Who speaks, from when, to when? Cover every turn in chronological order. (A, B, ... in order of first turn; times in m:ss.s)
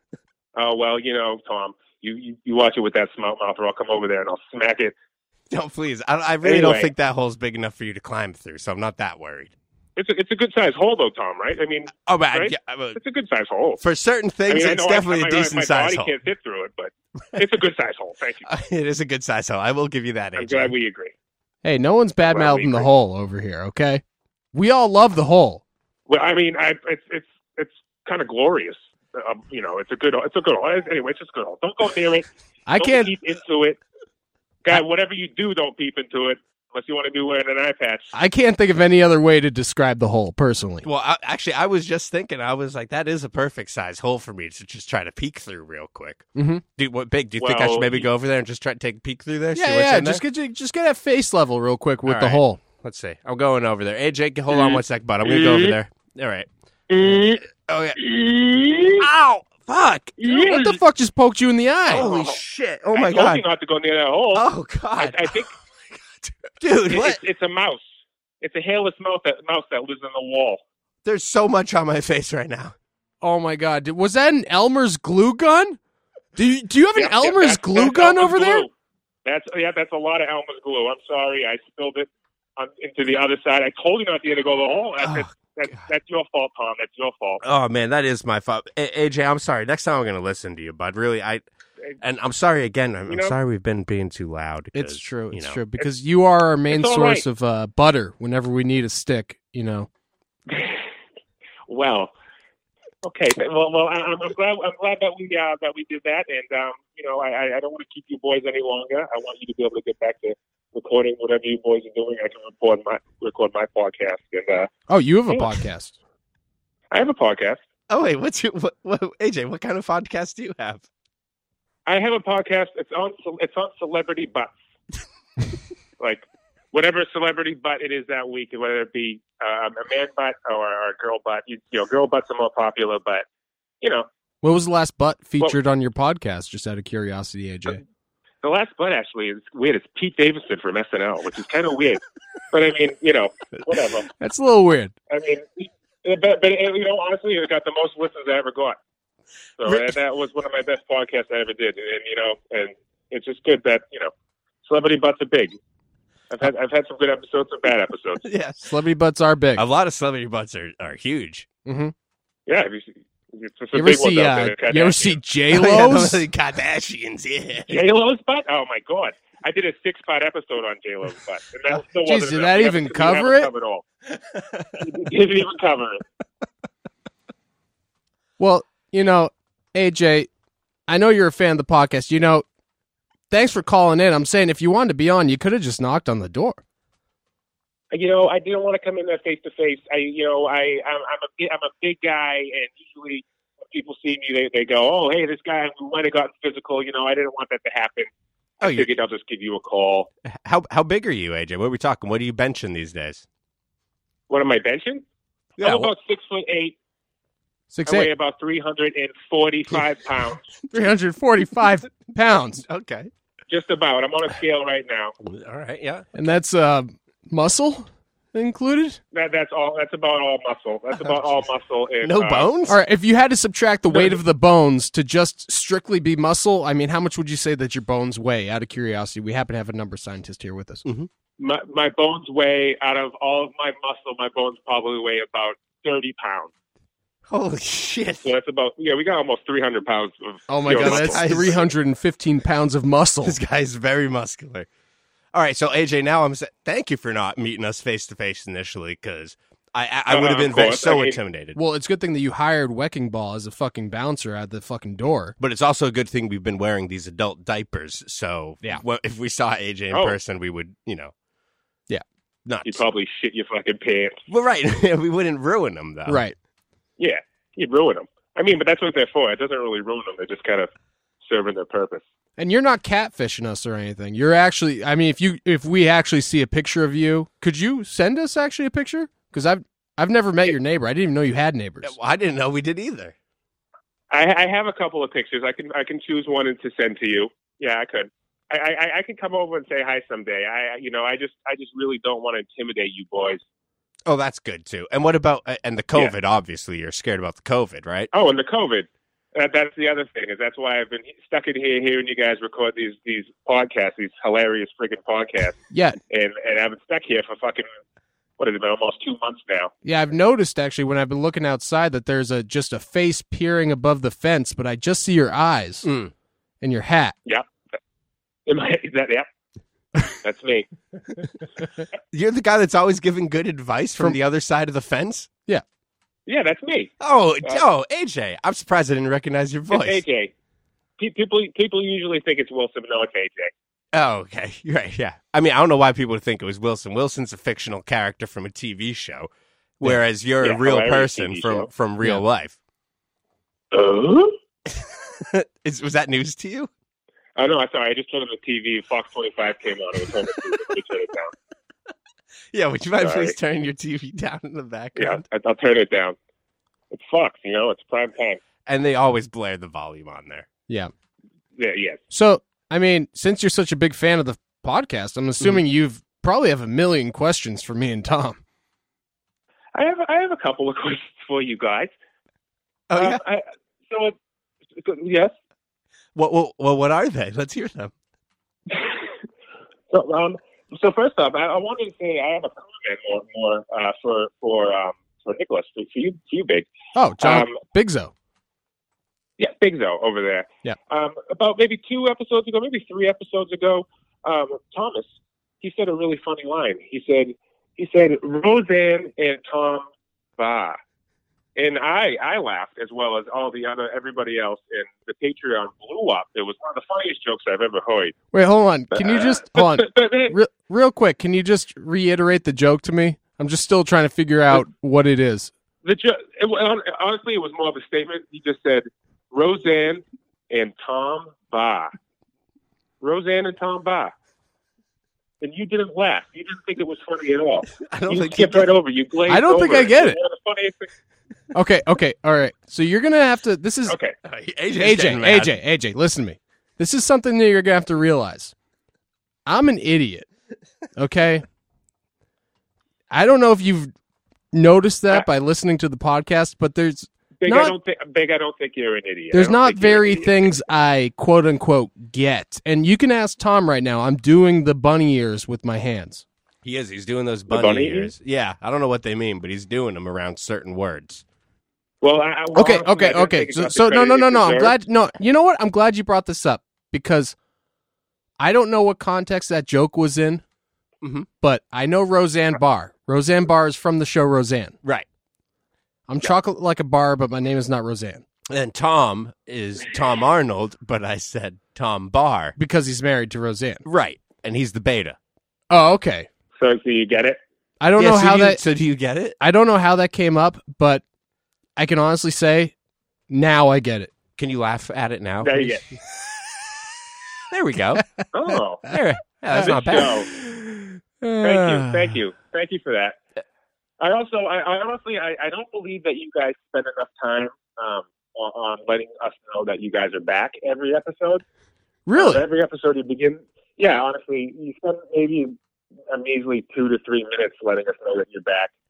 0:00.6-0:04.9 A
0:05.5-0:09.5 B
0:06.4-0:06.9 A
0:10.0-0:13.8 A
0:12.0-0:13.0 B
0:13.8-0:16.1 B
0:14.5-0:18.5 A
0:18.4-0:20.7 B
0:20.4-0:21.1 A
0:21.6-0:24.0 C
0:22.3-0:22.9 A
0:24.5-0:25.6 C
0:26.1-0:33.8 A
0:32.7-0:33.1 C
0:34.6-0:38.1 A
0:38.1-0:40.9 C
0:40.8-0:50.2 B
0:46.4-0:46.6 C
0:47.4-0:48.1 A
0:49.6-0:52.6 C
0:52.1-0:56.5 B
0:54.5-0:55.8 A
0:56.9-0:57.4 A
0:57.3-0:58.0 B
0:58.0-0:59.1 A
0:59.0-1:00.3 B
1:00.2-1:00.8 A
1:00.3-1:02.1 C
1:01.9-1:03.4 B
1:01.9-1:02.4 A
1:02.9-1:04.5 A
1:04.3-1:05.4 B
1:05.0-1:05.5 A
1:06.6-1:07.2 B
1:06.9-1:07.8 A
1:08.4-1:10.6 A
1:11.0-1:12.8 B
1:13.2-1:15.8 C
1:16.4-1:18.7 C
1:17.0-1:18.7 A
1:19.2-1:27.4 A
1:25.0-1:25.8 B
1:27.4-1:31.4 B
1:32.0-1:35.6 B
1:33.1-1:33.4 A
1:34.7-1:39.9 C
1:36.7-1:37.2 A
1:40.5-1:40.9 A
1:41.7-1:42.1 A
1:43.0-1:54.7 A
1:54.9-1:56.0 C
1:56.9-1:57.6 A
1:57.9-2:00.8 B
2:01.9-2:04.5 A
2:06.0-2:13.2 A
2:13.8-2:14.1 A
2:14.4-2:17.8 C
2:18.4-2:24.1 A
2:24.2-2:24.9 C
2:25.1-2:28.8 A
2:29.6-2:34.1 A
2:34.6-2:35.6 A
2:36.3-2:38.2 A
2:38.2-2:38.7 B
2:38.6-2:39.6 C
2:39.6-2:41.5 B
2:41.7-2:41.9 C
2:42.5-2:45.2 A
2:43.7-2:46.3 C
2:45.5-2:47.8 B
2:47.7-2:53.8 A
2:52.0-2:53.5 C
2:54.3-2:54.8 B
2:54.8-2:56.0 A
2:58.4-3:00.3 C
3:00.9-3:02.4 C
3:03.3-3:06.6 C
3:07.9-3:20.1 A
3:18.6-3:18.9 B
3:20.2-3:23.2 B
3:24.3-3:25.0 A
3:25.6-3:25.9 B
3:25.6-3:26.8 A
3:27.7-3:28.1 C
3:27.9-3:30.5 A
3:30.7-3:32.6 C
3:32.6-3:33.1 B
3:33.5-3:35.2 A
3:35.2-3:36.1 B
3:36.1-3:39.0 C
3:39.1-3:42.5 A
3:42.0-3:42.8 B
3:42.7-3:50.8 C
3:43.9-3:44.2 A
3:51.4-3:56.5 A
3:57.3-3:58.3 B
3:58.2-4:01.6 A
4:00.5-4:03.4 C
4:00.7-4:01.6 B
4:03.2-4:04.7 B
4:05.3-4:11.6 B
4:10.1-4:11.2 A
4:11.6-4:15.4 C
4:15.4-4:21.1 B
4:22.5-4:22.8 B
4:22.6-4:24.2 A
4:24.3-4:26.2 B
4:26.1-4:26.4 C
4:27.0-4:30.7 A
4:31.2-4:32.0 A
4:32.4-4:42.0 C
4:41.8-4:43.2 B
4:44.1-4:53.4 A
4:54.1-4:58.1 B
4:58.1-5:07.7 A
5:05.7-5:06.0 C
5:08.4-5:09.7 A
5:09.8-5:15.9 C
5:15.8-5:16.1 B
5:16.6-5:17.2 C
5:18.5-5:19.3 A
5:20.2-5:20.7 A
5:22.1-5:25.3 B
5:26.3-5:26.9 A
5:27.0-5:30.0 B
5:29.7-5:30.3 A
5:31.0-5:33.5 A
5:33.9-5:42.6 B
5:40.4-5:41.7 A
5:43.7-5:44.4 A
5:44.7-5:46.7 B
5:47.4-5:51.3 A
5:52.5-5:55.2 B
5:53.0-5:53.4 A
5:55.0-5:56.2 A
5:56.9-5:58.4 A
5:58.7-6:00.5 B
6:01.6-6:02.0 A
6:02.1-6:08.4 C
6:09.8-6:11.9 A
6:12.9-6:13.2 B
6:13.0-6:14.2 A
6:14.8-6:15.3 A
6:16.2-6:17.9 B
6:18.7-6:19.1 A
6:19.9-6:26.7 A
6:27.0-6:28.1 C
6:27.2-6:27.6 A
6:29.4-6:40.8 A
6:41.6-6:48.2 A
6:48.3-6:55.5 C
6:48.9-6:50.4 A
6:55.8-7:01.9 A
7:03.0-7:04.1 A
7:05.4-7:10.9 A
7:07.7-7:08.7 B
7:09.3-7:10.2 C
7:11.5-7:14.0 C
7:13.9-7:14.2 A
7:14.2-7:15.6 B
7:14.8-7:18.5 C
7:19.5-7:20.3 C
7:21.0-7:21.4 C
7:23.1-7:23.9 C
7:24.5-7:27.8 C
7:27.4-7:30.5 A
7:29.3-7:36.2 C
7:36.6-7:41.2 B
7:37.5-7:38.1 A
7:42.0-7:44.8 A
7:42.5-7:47.4 C
7:48.4-7:50.4 C
7:51.0-7:51.3 B
7:51.4-7:54.8 C
7:56.1-7:58.2 C
7:58.5-8:02.6 B
8:02.6-8:03.8 C
8:03.8-8:05.2 B
8:05.7-8:06.3 C
8:06.6-8:07.4 A
8:07.8-8:08.6 C
8:08.0-8:09.4 B
8:09.4-8:11.0 C
8:11.8-8:12.7 C
8:13.3-8:14.1 C
8:14.4-8:15.8 B
8:15.4-8:15.8 A
8:17.5-8:18.1 B
8:18.3-8:18.9 A
8:18.9-8:20.4 B
8:19.5-8:20.1 C
8:19.5-8:20.3 A
8:21.2-8:22.1 C
8:21.4-8:23.2 A
8:24.0-8:31.4 A
8:32.1-8:32.4 C
8:32.2-8:35.6 A
8:36.1-8:38.7 A